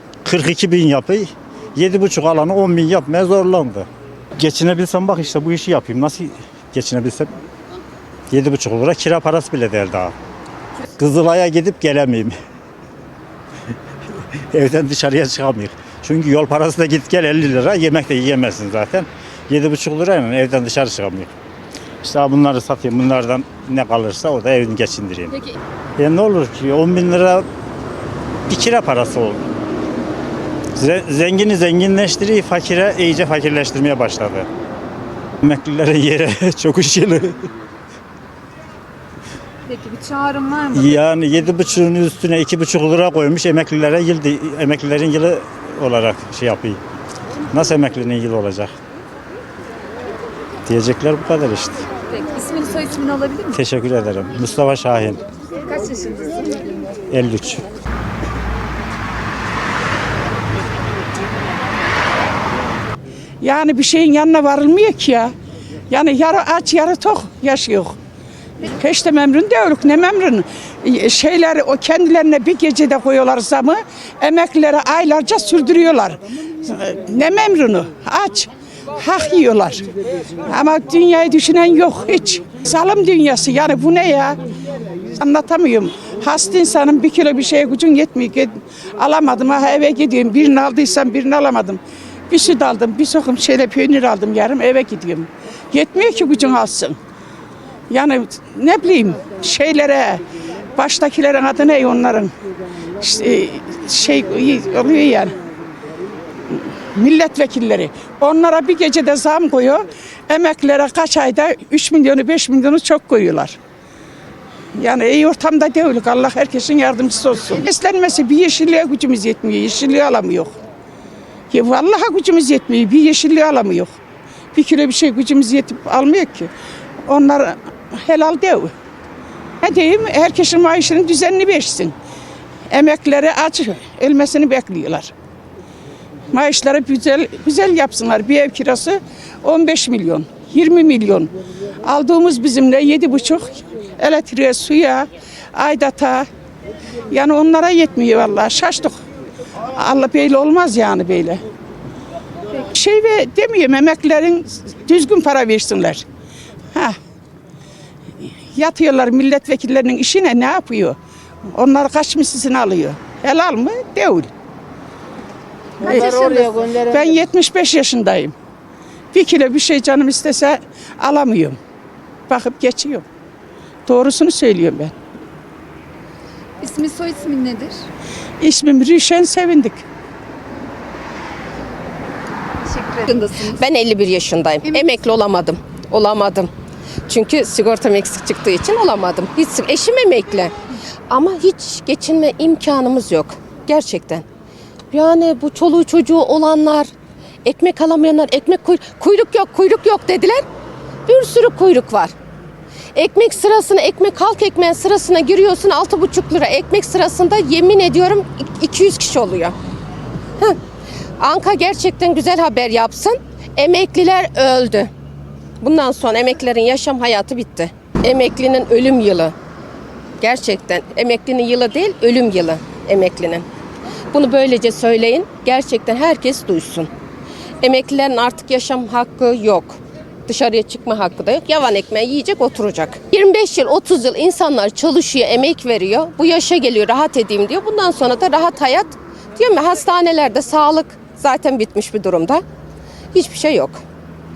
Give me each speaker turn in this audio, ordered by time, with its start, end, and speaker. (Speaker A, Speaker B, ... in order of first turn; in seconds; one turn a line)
Speaker A: 0.2-7.3
Speaker A: 8.3-10.1
Speaker A: 11.0-12.3
Speaker A: 14.5-21.3
Speaker A: 22.0-27.5
Speaker A: 28.5-29.4
Speaker A: 30.7-34.5
Speaker A: 35.4-37.5
Speaker B: 39.7-40.9
Speaker A: 40.7-46.8
Speaker A: 47.5-48.7
Speaker A: 50.6-51.9
Speaker B: 52.1-53.6
Speaker A: 53.5-55.2
Speaker B: 55.7-56.6
Speaker A: 57.1-57.7
Speaker C: 63.4-65.3
Speaker C: 65.9-68.0
Speaker C: 68.6-79.9
Speaker C: 80.5-84.4
Speaker C: 85.1-97.0
Speaker C: 97.9-100.2
Speaker C: 100.8-102.3
Speaker C: 103.0-105.3
Speaker C: 106.5-113.6
Speaker C: 114.7-120.5
Speaker C: 121.5-123.9
Speaker C: 124.5-126.5
Speaker C: 127.1-128.7
Speaker C: 129.6-131.9
Speaker C: 132.7-135.1
Speaker C: 136.3-141.3
Speaker C: 141.8-146.3
Speaker C: 147.1-149.0
Speaker C: 149.7-151.4
Speaker C: 152.6-156.0
Speaker C: 158.2-161.0
Speaker C: 161.5-164.3
Speaker C: 165.8-168.3
Speaker C: 169.1-171.6
Speaker C: 172.3-173.0
Speaker C: 173.8-174.9
Speaker B: 176.6-177.8
Speaker C: 178.4-179.8
Speaker B: 182.6-183.6
Speaker D: 183.4-186.5
Speaker D: 187.1-190.5
Speaker D: 191.1-194.2
Speaker D: 194.9-196.9
Speaker D: 197.4-200.4
Speaker D: 201.1-202.1
Speaker D: 202.9-209.6
Speaker D: 211.2-214.9
Speaker D: 215.6-219.3
Speaker D: 220.2-223.4
Speaker D: 224.1-226.9
Speaker D: 227.6-242.4
Speaker D: 243.1-243.8